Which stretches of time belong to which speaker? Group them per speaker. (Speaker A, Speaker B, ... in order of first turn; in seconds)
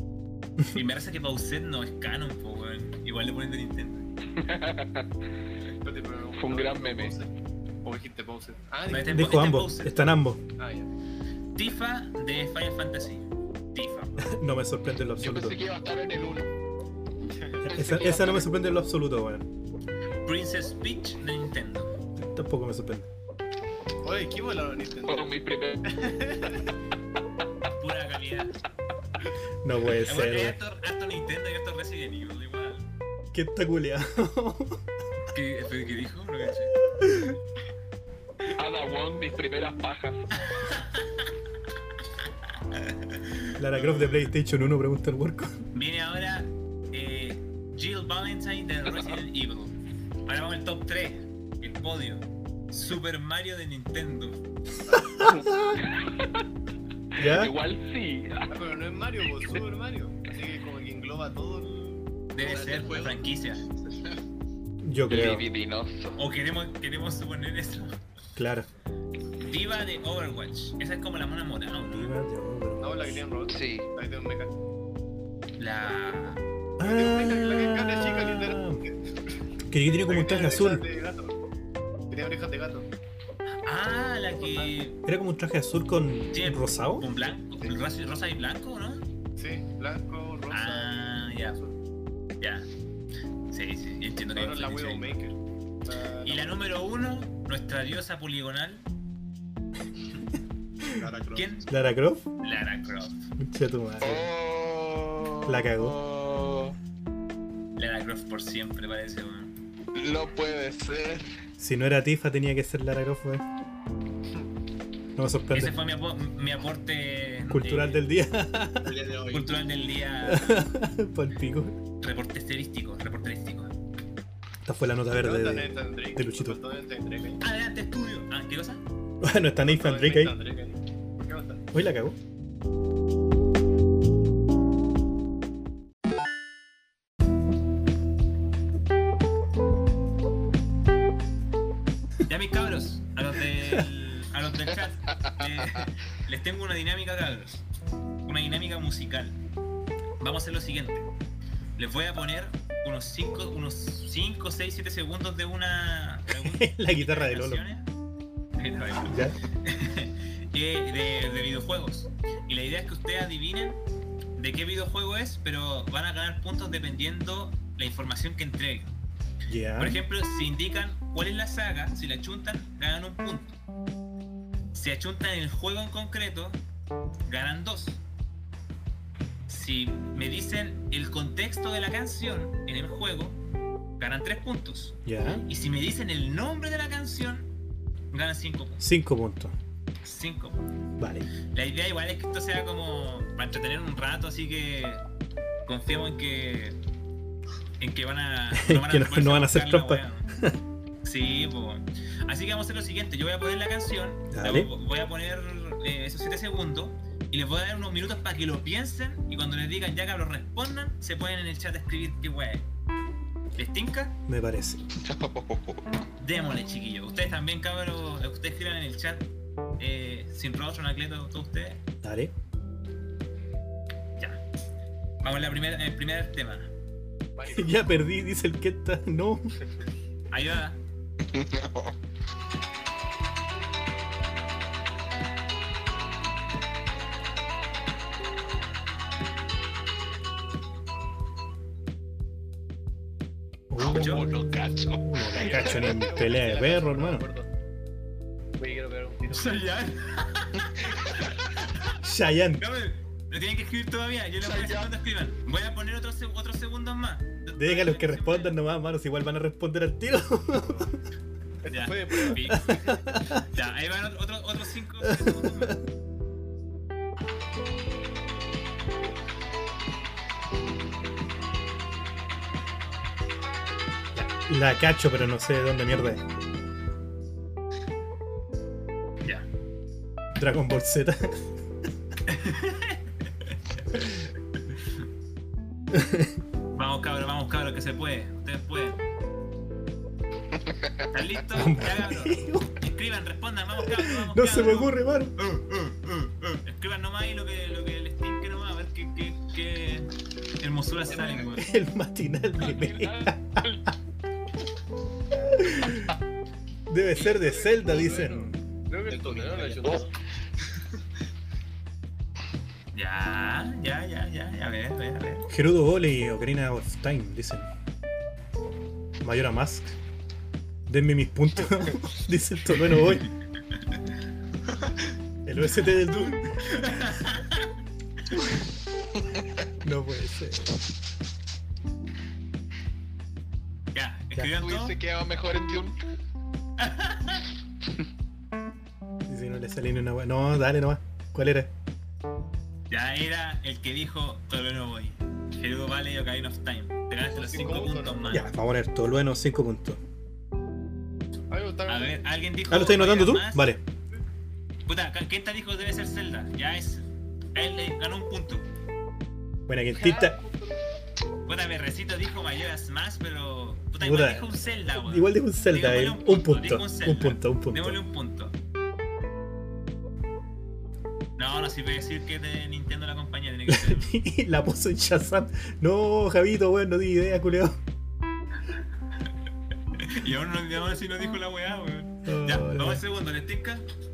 Speaker A: 0.7-4.1, 8.9-10.0, 11.6-14.3, 20.3-21.9, 27.8-28.5, 30.1-32.9, 35.3-36.8, 40.5-41.0, 42.7-43.5, 45.7-49.8, 50.3-54.4, 62.3-63.6, 66.2-68.0, 69.4-72.2, 75.6-76.4, 83.6-85.0, 86.3-89.0, 90.5-91.6, 92.4-92.7, 93.5-95.2, 96.2-98.8, 101.3-101.7, 102.4-103.3, 107.8-109.5, 115.5-118.0, 119.3-120.7, 122.0-123.7, 127.4-128.8, 142.3-147.6, 148.2-149.4, 150.2-151.1, 151.8-157.9, 158.6-163.8, 164.4-168.9, 169.8-173.6, 174.7-176.6, 177.3-178.0, 179.5-183.4, 184.0-187.5, 188.1-188.9, 190.0-190.7, 191.5-195.0, 195.7-196.8, 197.8-200.3, 201.0-212.6, 213.6-214.2, 216.2-219.2, 219.8-221.8, 225.2-226.7, 230.3-230.8, 243.8-244.3, 249.3-251.3, 252.6-258.6, 261.7-265.8, 282.3-284.2, 286.8-289.0, 291.1-301.7, 312.9-315.5, 326.1-327.7, 333.9-335.0, 336.8-337.4, 342.9-348.5, 351.9-353.7, 354.9-358.7, 361.5-368.5, 371.4-374.2, 380.0-383.9
Speaker B: 4.4-5.1, 6.3-7.2, 25.3-25.8, 38.5-40.3, 55.3-56.4, 57.2-58.5, 65.1-66.2, 73.5-73.8, 302.6-303.8
Speaker C: 5.8-7.3, 7.8-9.3, 10.6-10.9, 17.3-17.7, 24.0-26.6, 58.5-62.1, 72.8-74.5, 76.8-79.0, 80.0-81.3, 82.1-82.9, 84.3-84.7, 89.4-91.8, 94.3-96.6, 125.2-127.4, 129.7-131.6, 227.4-227.7, 245.3-247.5, 248.6-249.6, 261.6-262.5, 301.1-301.5, 307.1-310.1, 347.3-348.3, 351.5-352.2, 360.0-360.8
Speaker D: 9.1-10.4, 14.2-15.6, 17.6-19.4, 22.2-23.1, 29.6-30.6, 33.3-34.8, 37.0-37.4, 43.6-45.6, 54.9-55.4, 57.2-57.5, 64.8-65.4, 68.4-68.7, 71.8-73.2, 76.8-78.8, 79.7-80.8, 85.1-87.1, 101.7-102.2, 103.4-104.3, 105.5-106.0, 111.6-113.4, 115.2-115.8, 117.5-119.0, 120.2-121.8, 124.7-126.6, 129.2-130.3, 131.7-132.2, 156.3-157.6, 159.1-159.4, 169.5-170.0, 185.1-185.5, 188.8-189.6, 191.0-191.3, 198.5-200.6, 204.3-204.7, 214.3-214.8, 222.0-222.3, 227.5-229.5, 243.7-247.3, 252.0-252.7, 257.6-260.9, 262.3-263.4, 265.0-265.8, 274.1-276.2, 280.4-281.4, 285.9-286.4, 291.5-292.7, 293.8-295.3, 301.3-303.6, 305.3-306.1, 306.9-308.6, 315.5-317.7, 319.2-319.9, 320.9-323.3, 325.5-327.1, 329.8-330.8, 339.3-341.7, 348.3-350.0, 352.7-353.8, 359.7-360.4, 364.0-368.0, 373.7-377.8, 382.2-383.0
Speaker E: 15.2-16.5, 17.7-18.4, 25.1-25.4, 104.0-106.8, 110.0-111.3, 215.0-215.8, 243.8-245.6, 254.4-254.9, 334.6-336.0
Speaker F: 62.4-63.3, 63.8-64.2, 100.8-101.6, 118.8-119.6, 309.1-310.0